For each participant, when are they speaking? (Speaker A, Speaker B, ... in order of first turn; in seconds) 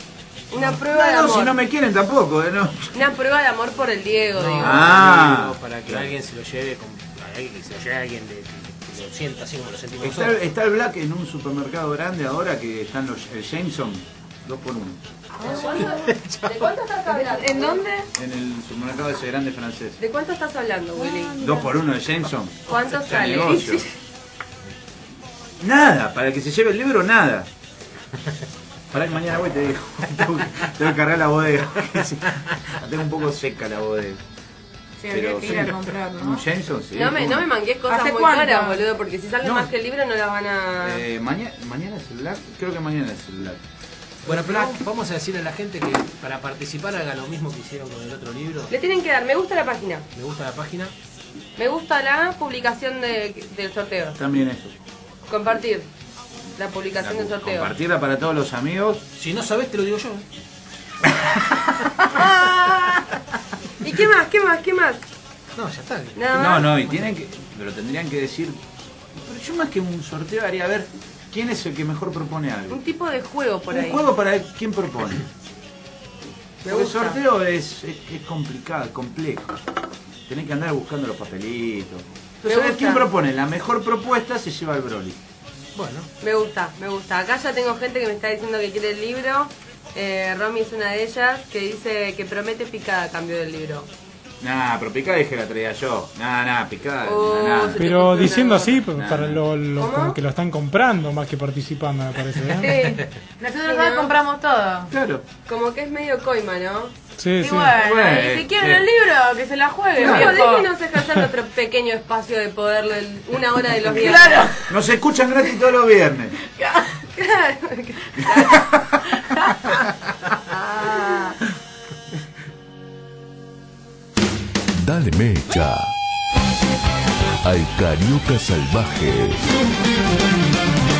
Speaker A: 0.5-1.6, 2.9-5.0, 15.4-17.9, 20.0-21.4, 22.7-23.9, 36.9-41.0, 48.7-50.0, 51.6-54.2, 55.3-55.9, 56.5-57.7, 62.0-63.1, 63.8-65.0, 66.2-66.7, 72.7-74.0, 76.6-77.2, 82.4-83.0, 86.2-93.9, 97.0-98.8, 99.8-100.2, 103.6-104.1, 105.5-106.9, 110.0-114.5, 117.1-118.7
Speaker B: 0.5-3.0, 4.6-6.1, 10.0-15.0, 18.1-20.0, 21.4-23.8, 25.6-27.5, 28.9-34.2, 35.1-37.5, 39.4-39.7, 40.8-43.6, 54.1-54.7, 57.0-59.0, 66.3-68.6, 69.1-72.8, 73.7-75.2, 76.6-79.6, 80.3-85.2, 94.4-97.8, 98.9-99.4, 104.9-105.2, 107.7-108.9, 110.0-110.5, 114.7-116.4, 118.2-118.9
Speaker C: 4.3-10.4, 15.4-16.7, 44.2-48.7, 50.1-50.9, 59.1-60.2, 65.5-67.1, 85.7-86.1
Speaker D: 15.4-16.0, 17.1-18.1, 20.9-21.7, 35.0-36.4, 37.9-38.8, 102.6-104.9, 107.4-110.7, 113.8-114.7, 116.6-116.9, 120.5-121.4
Speaker E: 97.8-103.0, 107.2-107.8
Speaker F: 124.7-125.9, 127.4-129.5